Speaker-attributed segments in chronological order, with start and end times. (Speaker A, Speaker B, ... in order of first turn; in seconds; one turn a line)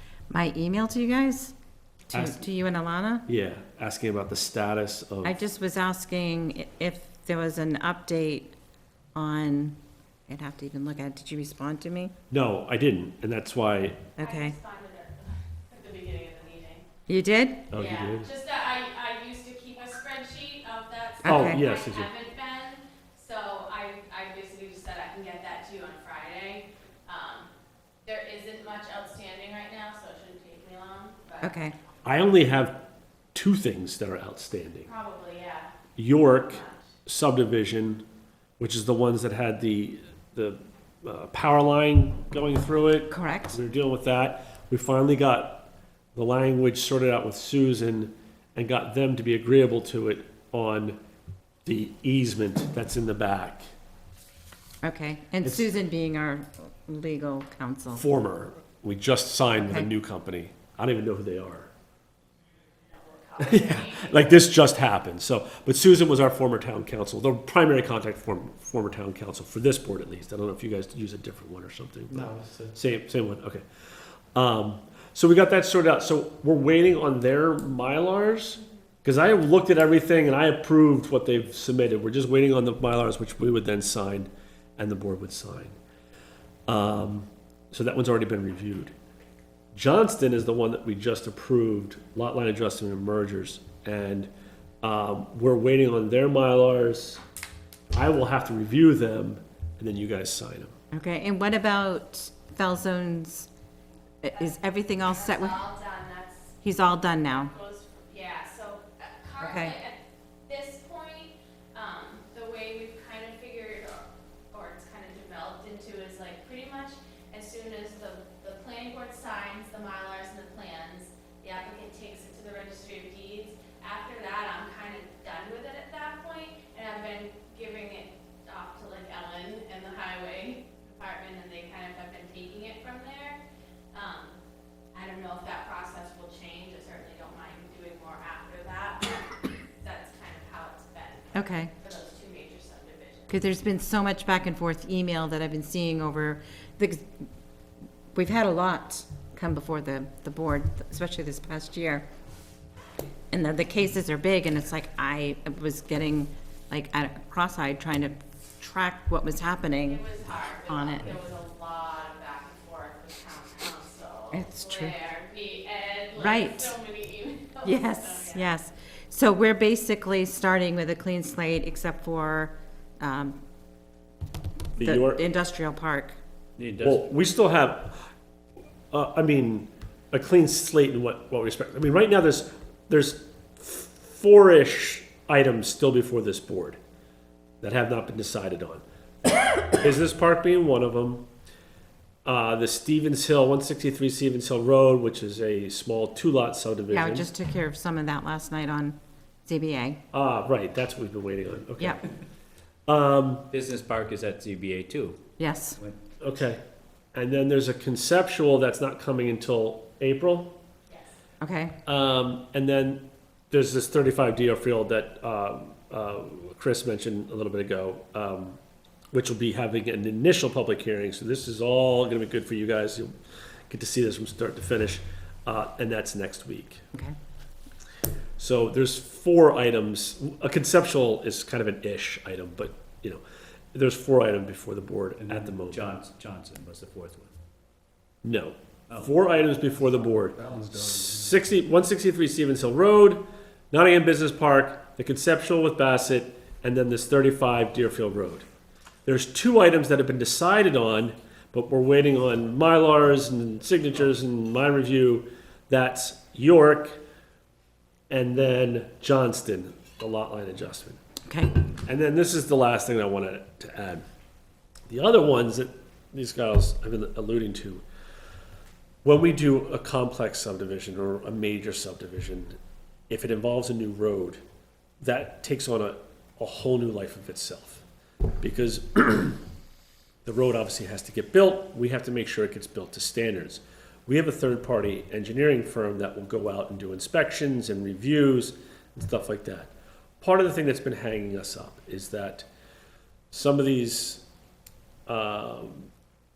Speaker A: 0.3-1.5
Speaker A: 2.1-3.2
Speaker B: 2.1-2.4
Speaker B: 3.3-5.4
Speaker A: 5.2-8.5
Speaker A: 9.1-9.8
Speaker A: 10.3-12.1
Speaker B: 12.3-14.1
Speaker A: 14.2-14.5
Speaker C: 14.2-16.9
Speaker A: 17.1-17.6
Speaker B: 17.7-18.3
Speaker C: 17.7-27.5
Speaker A: 21.2-21.6
Speaker B: 21.2-22.1
Speaker C: 28.0-31.5
Speaker A: 31.4-31.7
Speaker B: 32.0-32.8
Speaker B: 33.3-34.9
Speaker C: 34.9-35.7
Speaker B: 36.0-38.0
Speaker C: 36.3-36.8
Speaker B: 38.6-51.0
Speaker A: 43.1-43.6
Speaker B: 51.6-53.6
Speaker A: 54.8-58.0
Speaker B: 57.9-61.7
Speaker A: 59.6-59.9
Speaker C: 62.9-64.2
Speaker B: 63.4-73.6
Speaker B: 74.3-85.7
Speaker B: 86.7-88.9
Speaker B: 89.7-94.3
Speaker B: 94.8-97.2
Speaker B: 97.9-100.8
Speaker A: 100.9-103.5
Speaker A: 104.2-105.6
Speaker C: 105.0-106.6
Speaker A: 106.6-107.5
Speaker C: 107.2-133.4
Speaker A: 109.4-109.8
Speaker C: 133.9-134.3
Speaker C: 134.9-143.3
Speaker A: 141.3-141.7
Speaker A: 143.3-147.1
Speaker A: 148.1-152.1
Speaker A: 153.3-160.0
Speaker C: 159.8-168.5
Speaker A: 160.7-161.2
Speaker A: 164.3-164.9
Speaker A: 166.2-166.7
Speaker A: 167.6-173.4
Speaker A: 174.8-176.2
Speaker B: 174.8-175.2
Speaker D: 176.6-177.1
Speaker B: 176.8-178.1
Speaker B: 178.9-186.8
Speaker B: 187.6-191.2
Speaker B: 192.2-197.3
Speaker A: 196.9-200.0
Speaker B: 200.1-202.0
Speaker B: 202.9-203.5
Speaker D: 203.5-205.2
Speaker A: 205.4-205.8
Speaker B: 206.2-206.6
Speaker B: 207.1-210.5
Speaker A: 211.4-211.7
Speaker B: 211.8-218.6
Speaker B: 219.1-223.1
Speaker B: 223.7-226.8
Speaker B: 228.4-233.2
Speaker B: 233.7-235.8
Speaker D: 235.2-237.3
Speaker B: 238.2-248.4
Speaker B: 249.1-257.0
Speaker B: 258.1-261.0
Speaker A: 261.3-261.6
Speaker B: 261.8-264.0
Speaker B: 264.9-267.8
Speaker B: 269.0-272.6
Speaker B: 273.1-274.4
Speaker B: 275.0-277.9
Speaker B: 278.4-279.4
Speaker B: 280.2-292.5
Speaker B: 293.3-294.2
Speaker B: 295.1-295.9